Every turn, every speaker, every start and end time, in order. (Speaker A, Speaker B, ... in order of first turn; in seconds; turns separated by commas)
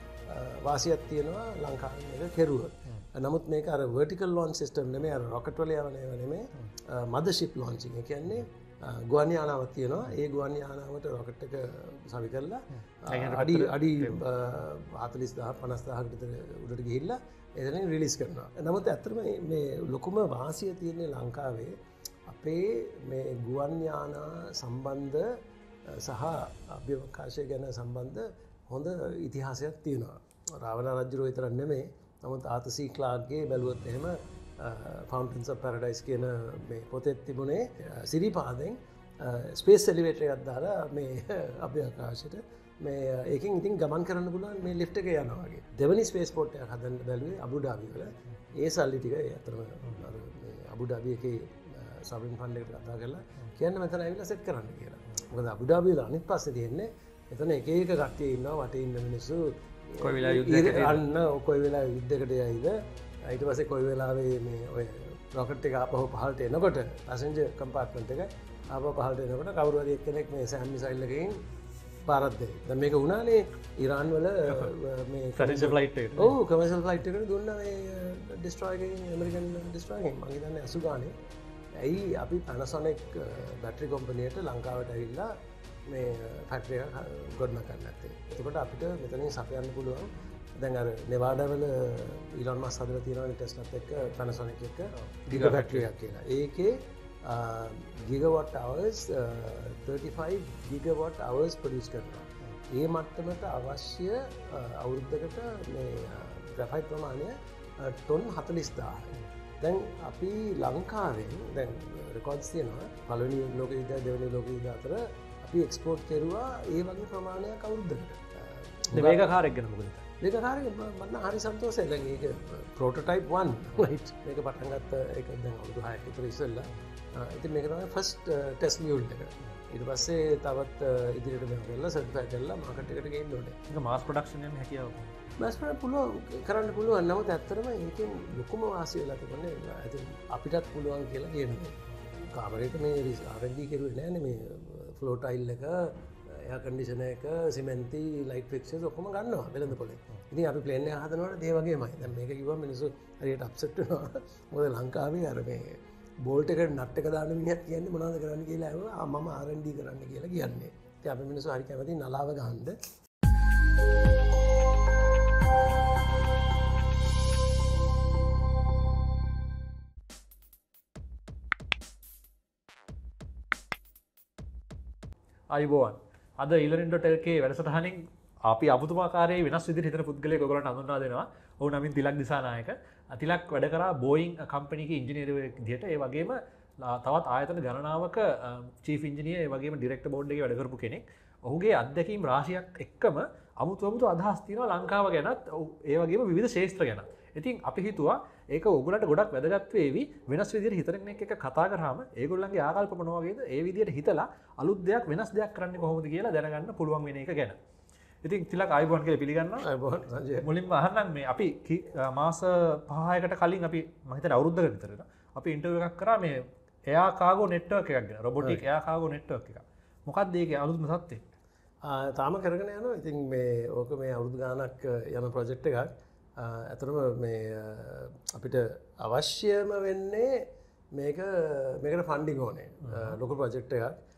Speaker A: 0.3-21.7, Speaker B: 13.1-14.2, Speaker A: 22.3-25.3, Speaker A: 25.9-71.4, Speaker B: 60.0-61.0, Speaker A: 72.0-81.1, Speaker B: 75.4-76.4, Speaker A: 81.8-85.3, Speaker A: 85.9-119.2, Speaker B: 95.3-95.9, Speaker B: 118.9-120.1, Speaker A: 120.2-133.6, Speaker B: 133.7-135.1, Speaker A: 135.4-162.8, Speaker B: 175.5-207.6, Speaker B: 208.2-209.7, Speaker A: 209.6-210.5, Speaker B: 210.4-221.2, Speaker A: 221.8-233.9